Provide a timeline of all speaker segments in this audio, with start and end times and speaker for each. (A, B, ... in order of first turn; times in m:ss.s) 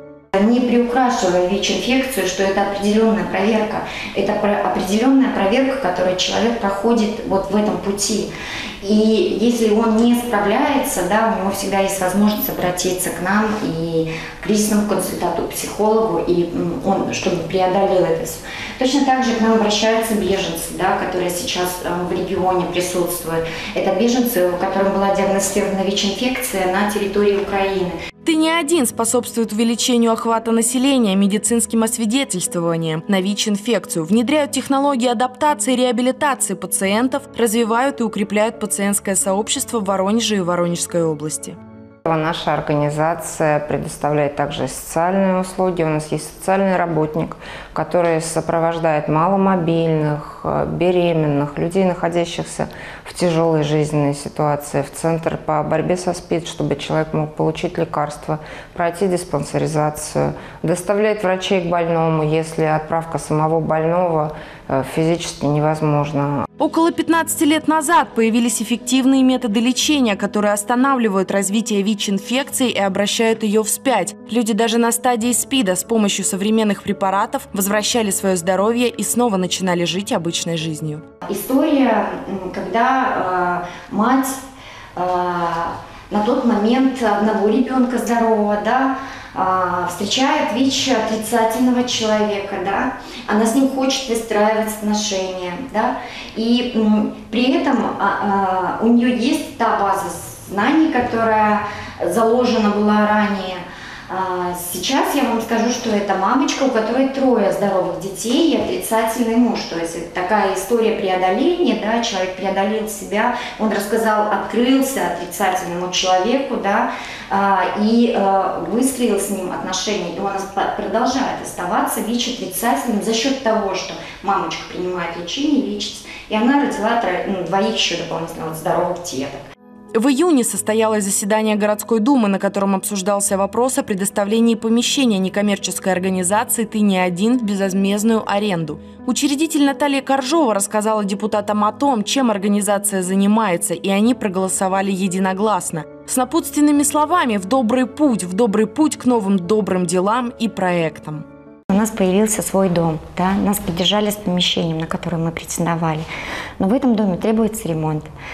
0:00.3-0:28.0 A
0:28.2-0:41.6 B
0:42.0-1:06.4 C
1:06.6-1:21.0 B
1:21.2-1:24.4 A
1:25.0-2:09.4 A
2:09.9-2:31.2 B
2:31.7-2:36.1 A
2:36.6-2:38.1 A